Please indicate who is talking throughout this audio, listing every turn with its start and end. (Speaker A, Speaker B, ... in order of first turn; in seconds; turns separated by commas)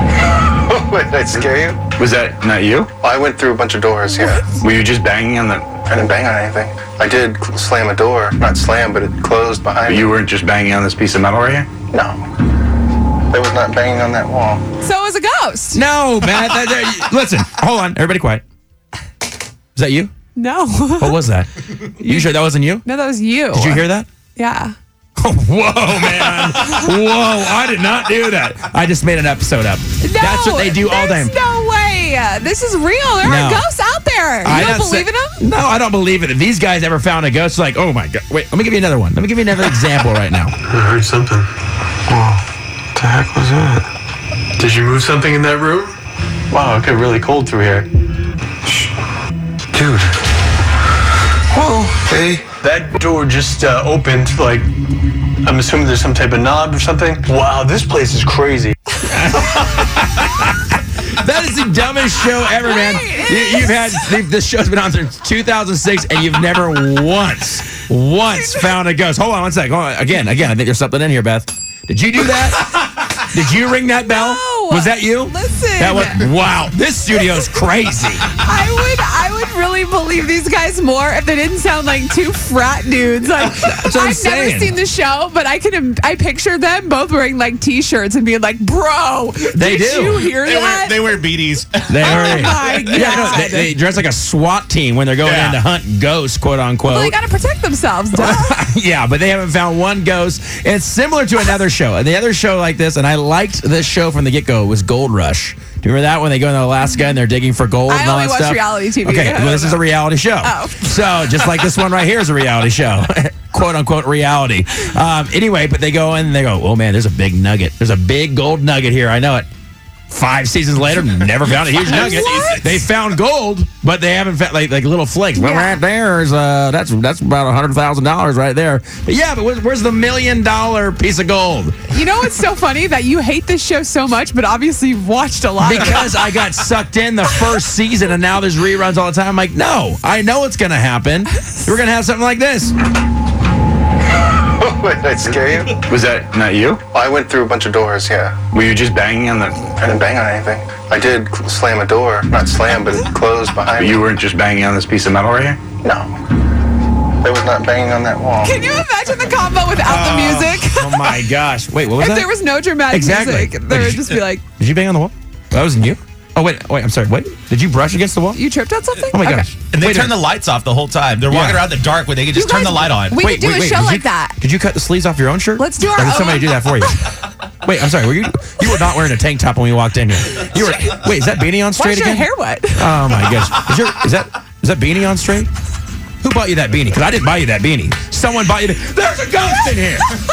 Speaker A: 0.5-1.8, Speaker B: 1.9-2.9, Speaker A: 3.0-4.6, Speaker B: 4.5-5.7, Speaker A: 5.8-10.2, Speaker B: 9.8-11.7, Speaker A: 11.9-12.2, Speaker A: 13.3-14.6, Speaker C: 14.8-15.8, Speaker D: 15.7-18.4, Speaker D: 19.7-20.1, Speaker C: 20.4-21.2, Speaker D: 21.0-22.8, Speaker C: 22.0-22.3, Speaker C: 22.8-24.7, Speaker D: 23.5-24.1, Speaker D: 25.2-31.3, Speaker C: 30.0-35.4, Speaker D: 33.2-33.6, Speaker D: 34.4-40.5, Speaker E: 40.7-41.5, Speaker B: 42.1-42.4, Speaker B: 43.0-43.8, Speaker E: 44.6-45.9, Speaker E: 46.5-47.9, Speaker B: 49.8-50.0, Speaker B: 51.5-52.4, Speaker E: 52.6-54.6, Speaker E: 55.4-58.7, Speaker D: 59.0-78.3, Speaker C: 62.4-64.0, Speaker C: 68.3-68.8, Speaker C: 74.0-76.3, Speaker C: 78.3-91.4, Speaker D: 83.4-84.7, Speaker D: 89.5-90.2, Speaker F: 90.3-92.7, Speaker D: 91.9-97.2, Speaker C: 92.0-93.7, Speaker F: 95.2-95.6, Speaker C: 96.8-98.6, Speaker D: 98.1-119.5, Speaker C: 107.9-109.8, Speaker C: 110.4-110.9, Speaker D: 120.1-131.9, Speaker F: 121.4-122.8, Speaker C: 121.8-122.7, Speaker C: 125.3-125.8, Speaker C: 131.9-136.3, Speaker D: 135.6-142.7, Speaker A: 144.4-145.8, Speaker B: 145.3-146.8, Speaker A: 146.9-148.4, Speaker B: 148.5-149.7, Speaker A: 149.7-154.1, Speaker B: 153.8-155.6, Speaker A: 155.8-156.2, Speaker A: 157.2-158.5, Speaker C: 158.4-161.3, Speaker D: 159.9-160.2, Speaker F: 159.9-160.6, Speaker D: 160.7-162.3, Speaker C: 161.9-164.4, Speaker D: 162.9-168.4, Speaker C: 168.3-169.5, Speaker D: 169.1-170.3, Speaker F: 169.6-173.2, Speaker D: 171.3-171.7, Speaker C: 172.3-174.4, Speaker D: 173.1-177.0, Speaker C: 175.6-177.0, Speaker D: 177.6-185.5, Speaker C: 181.8-183.0, Speaker D: 186.2-190.1